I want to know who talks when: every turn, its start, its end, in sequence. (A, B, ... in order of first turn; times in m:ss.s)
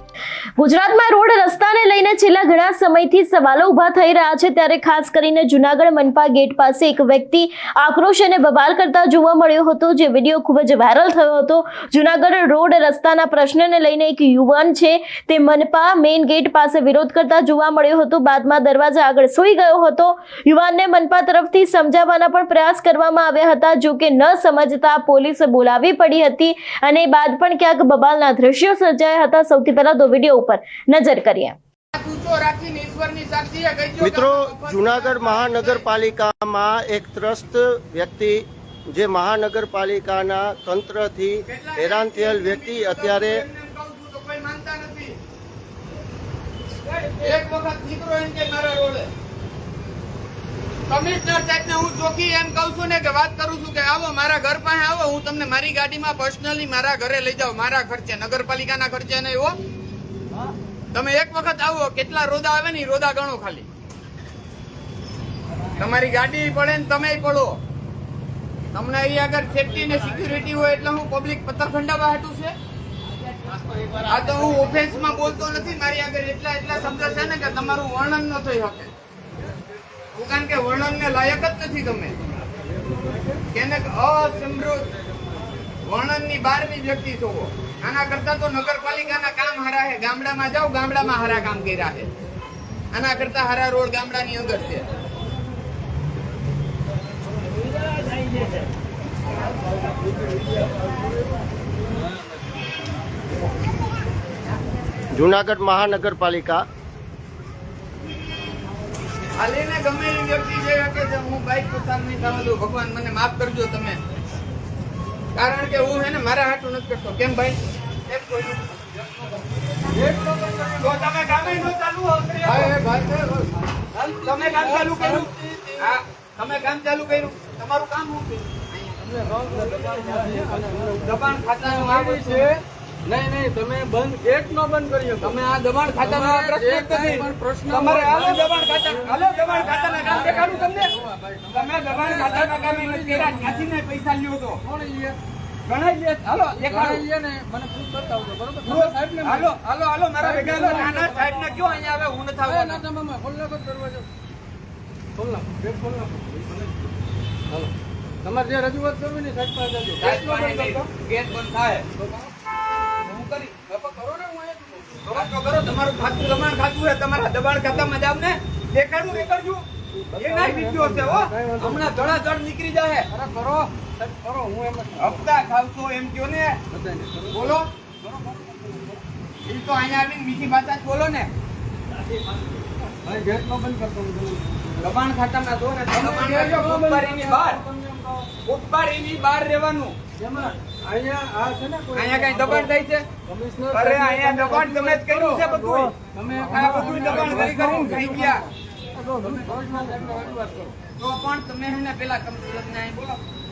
0:00.6-0:31.6 A
0:31.9-0:35.9 B
0:34.0-0:43.4 C
0:41.5-0:45.2 B
0:47.1-0:49.1 B
0:50.9-0:59.6 B
1:00.9-1:03.7 B
1:05.7-1:07.6 B
1:08.7-1:12.5 B
1:14.0-1:18.9 B
1:14.4-1:14.7 D
1:20.1-1:22.2 B
1:23.0-1:23.4 D
1:23.5-1:24.9 B
1:25.8-1:32.1 B
1:32.9-1:34.9 B
1:45.1-1:46.6 C
1:49.4-1:54.0 B
1:55.3-1:58.8 B
1:59.9-2:01.7 D
2:00.8-2:02.8 B
2:02.4-2:05.9 D
2:04.2-2:09.8 B
2:09.1-2:15.4 D
2:11.0-2:12.5 B
2:15.2-2:20.9 B
2:16.0-2:23.7 D
2:21.5-2:24.6 B
2:24.6-2:25.2 D
2:25.6-2:27.0 B
2:26.5-2:29.6 D
2:28.6-2:32.8 B
2:30.2-2:31.7 D
2:32.4-2:34.1 D
2:35.2-2:36.9 D
2:37.5-2:40.8 D
2:40.0-2:41.9 B
2:42.0-2:42.3 D
2:43.0-2:43.6 B
2:43.7-2:45.3 D
2:45.0-2:53.1 B
2:49.9-2:52.2 D
2:53.1-2:55.3 D
2:55.0-2:56.6 B
2:56.7-2:59.0 D
2:57.3-2:57.7 B
2:59.4-3:01.3 B
3:02.3-3:05.0 D
3:04.8-3:07.6 B
3:05.9-3:08.3 D
3:08.4-3:10.0 B
3:10.2-3:12.7 D
3:11.9-3:13.1 B
3:13.2-3:20.8 D
3:13.7-3:18.5 B
3:21.0-3:23.2 B